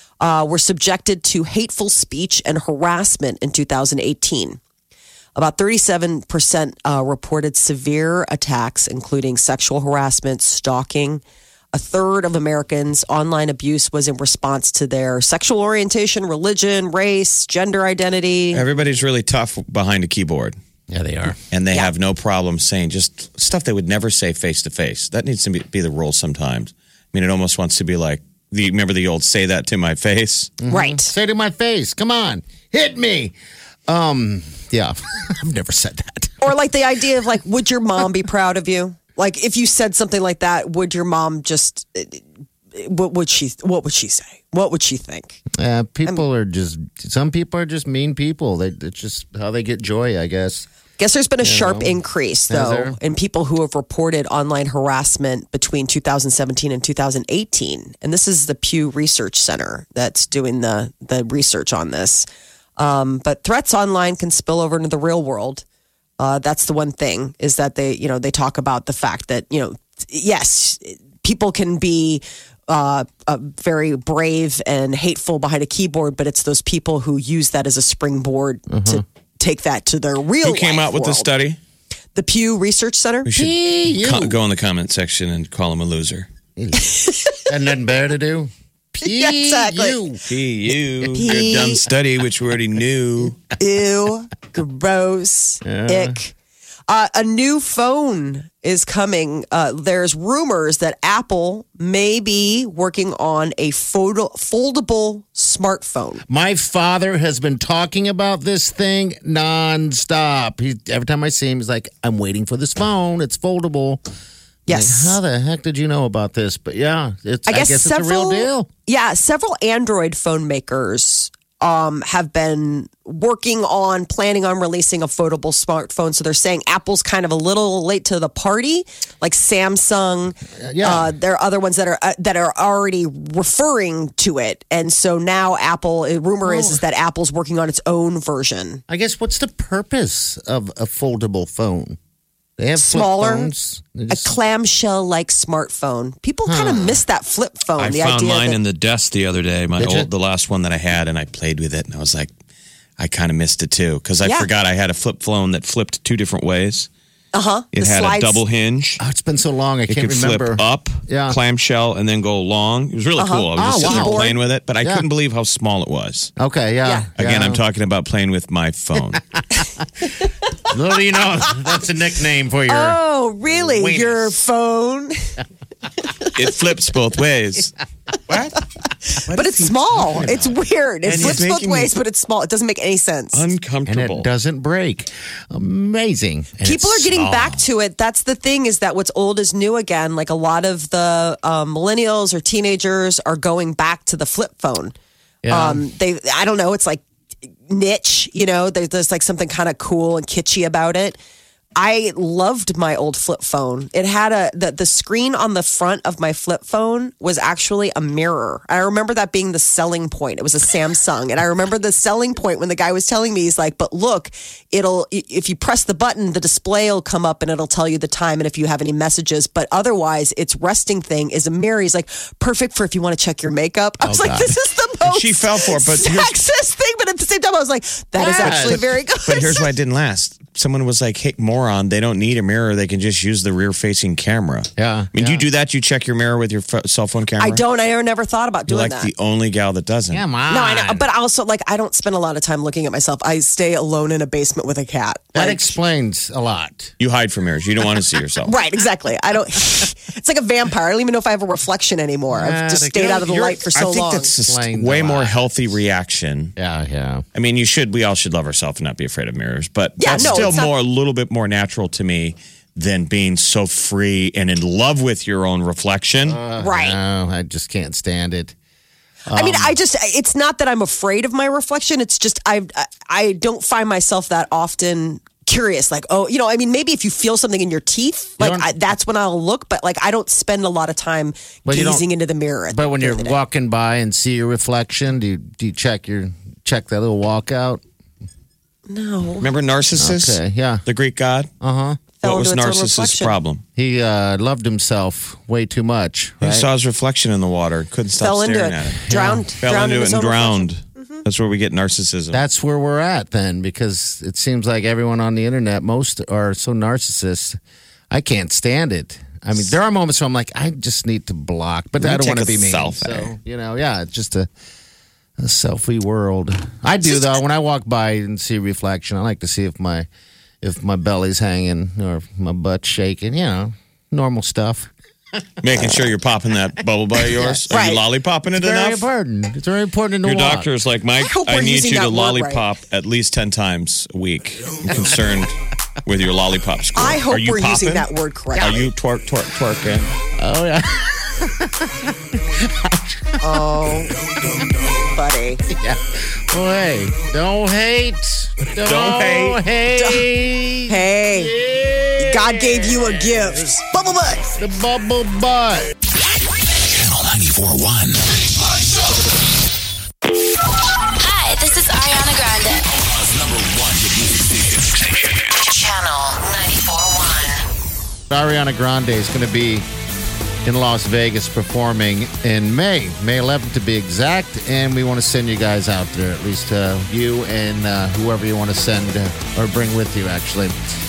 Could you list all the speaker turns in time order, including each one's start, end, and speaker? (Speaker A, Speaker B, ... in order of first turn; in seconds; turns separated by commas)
Speaker A: 0.2-4.6, Speaker A: 5.4-18.6, Speaker B: 18.5-20.6, Speaker C: 20.9-21.4, Speaker B: 21.5-30.6, Speaker C: 30.6-33.4, Speaker A: 30.7-31.1, Speaker C: 33.9-36.5, Speaker A: 36.4-45.4, Speaker C: 45.5-50.7, Speaker A: 51.0-65.6, Speaker C: 51.4-53.0, Speaker A: 66.2-81.3, Speaker C: 78.7-79.0, Speaker B: 80.4-81.6, Speaker A: 82.2-83.3, Speaker B: 83.2-86.3, Speaker C: 83.3-84.4, Speaker C: 86.6-90.2, Speaker A: 86.8-87.5, Speaker A: 89.0-90.0, Speaker B: 90.2-93.4, Speaker A: 91.2-91.8, Speaker A: 93.6-96.3, Speaker C: 95.7-96.2, Speaker A: 96.9-106.2, Speaker C: 106.3-114.0, Speaker A: 114.7-115.2, Speaker C: 114.7-118.7, Speaker A: 117.5-138.8, Speaker C: 130.6-131.1, Speaker C: 136.4-136.8, Speaker C: 138.9-142.0, Speaker C: 142.6-144.3, Speaker A: 142.8-143.5, Speaker A: 144.1-148.6, Speaker C: 146.5-147.0, Speaker B: 147.8-152.3, Speaker C: 149.8-150.1, Speaker B: 153.0-156.9, Speaker A: 154.2-154.5, Speaker A: 157.3-158.4, Speaker B: 157.7-159.0, Speaker C: 159.0-161.4, Speaker B: 159.9-166.3, Speaker A: 163.2-164.4, Speaker C: 163.6-164.2, Speaker C: 166.4-167.6, Speaker B: 167.2-169.3, Speaker C: 170.7-174.3, Speaker A: 172.7-175.4, Speaker B: 176.3-177.7, Speaker B: 178.3-178.6, Speaker B: 179.2-181.9, Speaker A: 179.3-183.4, Speaker C: 180.0-180.3, Speaker C: 181.1-181.4, Speaker B: 183.3-184.3, Speaker C: 183.9-187.7, Speaker A: 186.6-194.9, Speaker C: 195.4-195.8, Speaker A: 195.5-197.0, Speaker A: 197.7-201.2, Speaker A: 201.8-229.7, Speaker C: 224.0-224.6, Speaker B: 225.0-226.4, Speaker C: 228.2-228.9, Speaker B: 228.3-237.6, Speaker C: 234.8-235.4, Speaker A: 237.4-239.1, Speaker B: 238.7-240.2, Speaker C: 240.1-241.1, Speaker A: 240.5-245.8, Speaker C: 245.3-246.9, Speaker B: 247.0-248.5, Speaker A: 248.5-254.3, Speaker C: 252.3-253.4, Speaker B: 253.2-256.5, Speaker C: 254.4-255.5, Speaker C: 256.6-257.2, Speaker B: 257.4-266.4, Speaker A: 260.0-260.7, Speaker C: 260.1-260.6, Speaker C: 266.2-268.6, Speaker A: 266.6-267.0, Speaker C: 269.3-269.8, Speaker A: 269.3-283.4, Speaker C: 278.4-278.7, Speaker C: 281.6-282.1, Speaker C: 282.7-287.8, Speaker A: 288.9-289.5, Speaker B: 289.4-291.5, Speaker C: 290.0-290.8, Speaker C: 291.6-292.0, Speaker A: 292.2-293.4, Speaker B: 292.2-293.6, Speaker C: 293.8-296.7, Speaker B: 296.4-299.1, Speaker A: 298.2-301.2, Speaker C: 299.1-299.5, Speaker B: 299.6-302.4, Speaker C: 302.3-307.6, Speaker C: 308.1-314.5, Speaker B: 312.0-313.3, Speaker C: 315.4-320.1, Speaker C: 320.6-324.9, Speaker B: 325.6-329.0, Speaker C: 325.8-326.1, Speaker C: 327.2-327.7, Speaker A: 327.7-328.0, Speaker C: 328.5-330.7, Speaker B: 330.2-340.1, Speaker A: 331.2-332.6, Speaker A: 337.0-338.9, Speaker C: 340.4-343.7, Speaker A: 343.4-344.1, Speaker A: 345.1-345.6, Speaker C: 345.7-353.8, Speaker B: 348.7-349.6, Speaker A: 349.9-350.3, Speaker A: 350.9-351.5, Speaker A: 352.2-354.5, Speaker C: 354.6-355.9, Speaker D: 356.7-359.2, Speaker E: 361.2-362.9, Speaker D: 362.9-365.5, Speaker E: 365.5-367.6, Speaker C: 368.3-369.9, Speaker C: 370.6-380.8